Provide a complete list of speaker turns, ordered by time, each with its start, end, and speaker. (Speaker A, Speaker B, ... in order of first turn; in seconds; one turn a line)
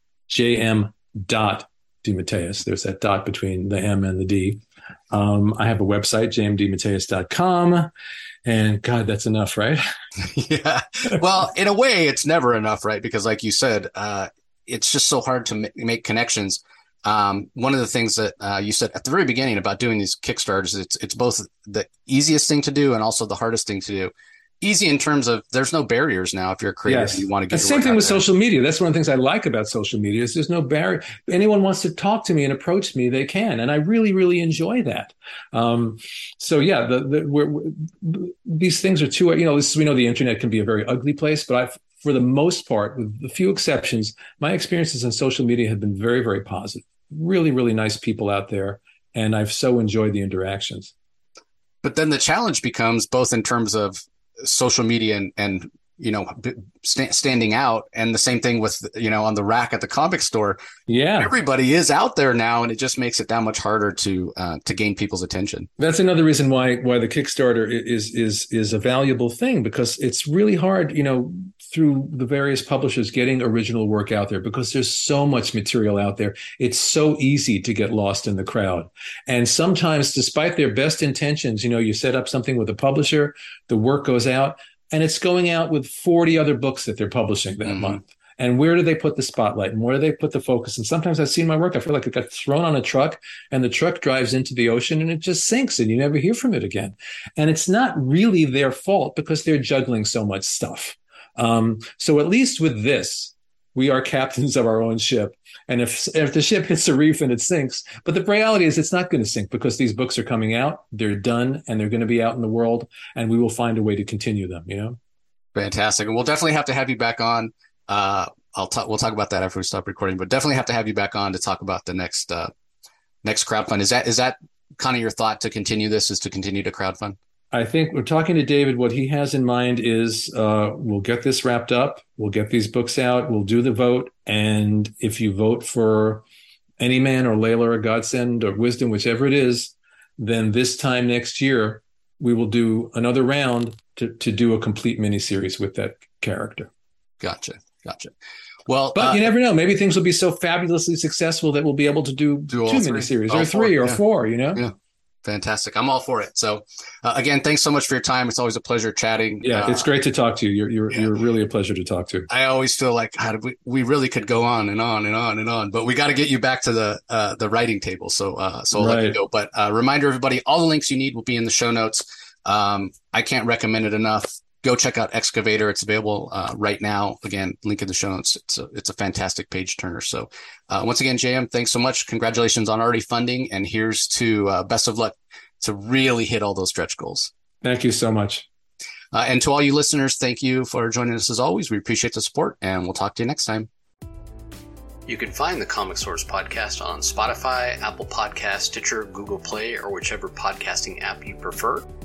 Speaker A: 0.3-7.9
Speaker A: 8.4-9.8
Speaker B: 10.2-28.2
Speaker A: 26.9-50.9
Speaker B: 51.8-60.6
Speaker A: 60.9-61.3
Speaker B: 61.2-65.7
Speaker A: 65.8-115.0
Speaker B: 87.6-88.0
Speaker B: 115.5-122.5
Speaker B: 123.2-127.2
Speaker A: 127.5-136.2
Speaker A: 136.8-146.7
Speaker B: 147.2-148.1
Speaker B: 148.7-149.3
Speaker A: 148.9-154.6
Speaker B: 152.5-154.0
Speaker B: 155.2-159.9
Speaker A: 159.4-162.3
Speaker B: 162.3-187.3
Speaker A: 168.7-169.2
Speaker A: 187.6-188.5
Speaker B: 189.1-193.7
Speaker B: 195.1-201.9